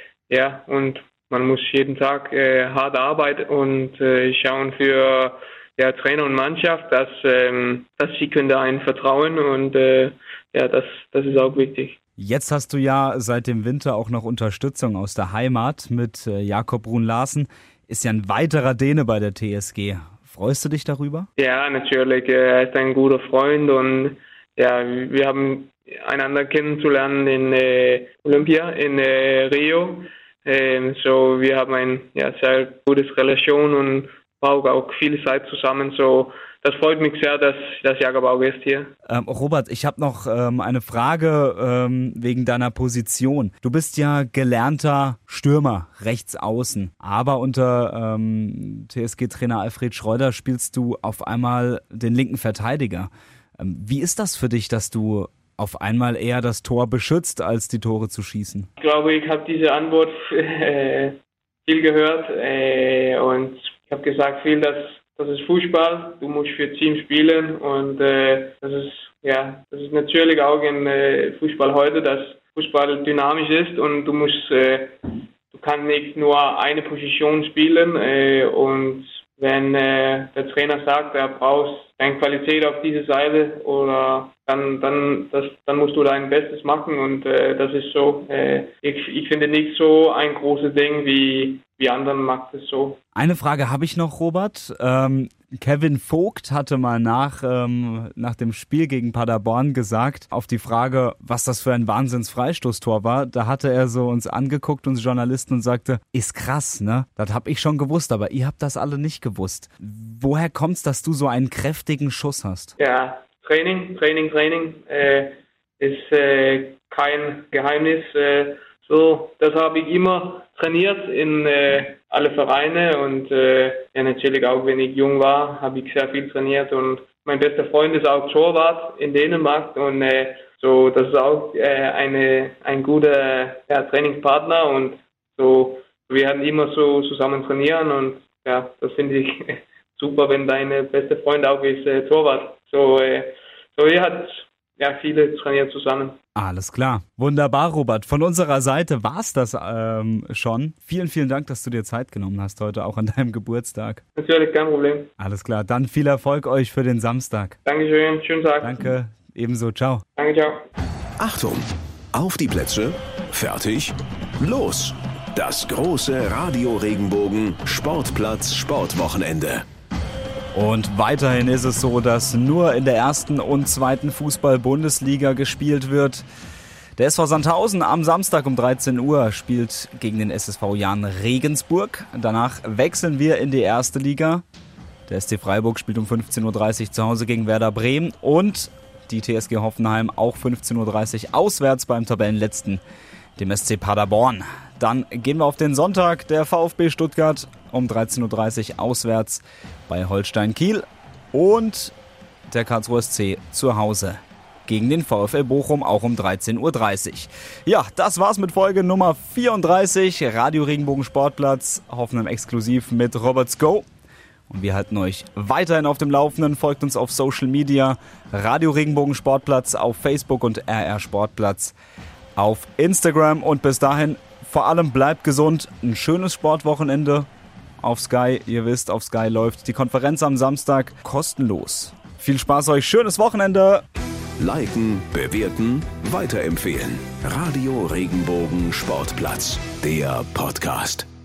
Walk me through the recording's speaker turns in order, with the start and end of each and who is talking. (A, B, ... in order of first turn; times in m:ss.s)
0:00.3-0:12.0 A
0:12.2-0:21.3 B
0:21.4-0:38.9 A
0:39.1-0:58.7 B
0:58.8-1:33.0 A
1:33.1-1:52.7 B
1:52.8-2:26.2 A
2:26.4-2:34.0 B
2:34.2-2:35.1 A
2:35.2-2:37.5 B
2:37.6-2:38.9 A
2:38.6-2:40.0 B
2:40.2-2:40.6 A
2:41.2-2:49.6 C
2:50.5-2:56.2 B
2:57.0-3:04.4 B
3:05.1-3:12.8 B
3:13.4-3:21.9 B
3:22.5-3:33.8 B
3:34.5-3:41.7 B
3:42.4-3:47.3 B
3:47.8-3:53.8 B
3:54.4-4:01.0 C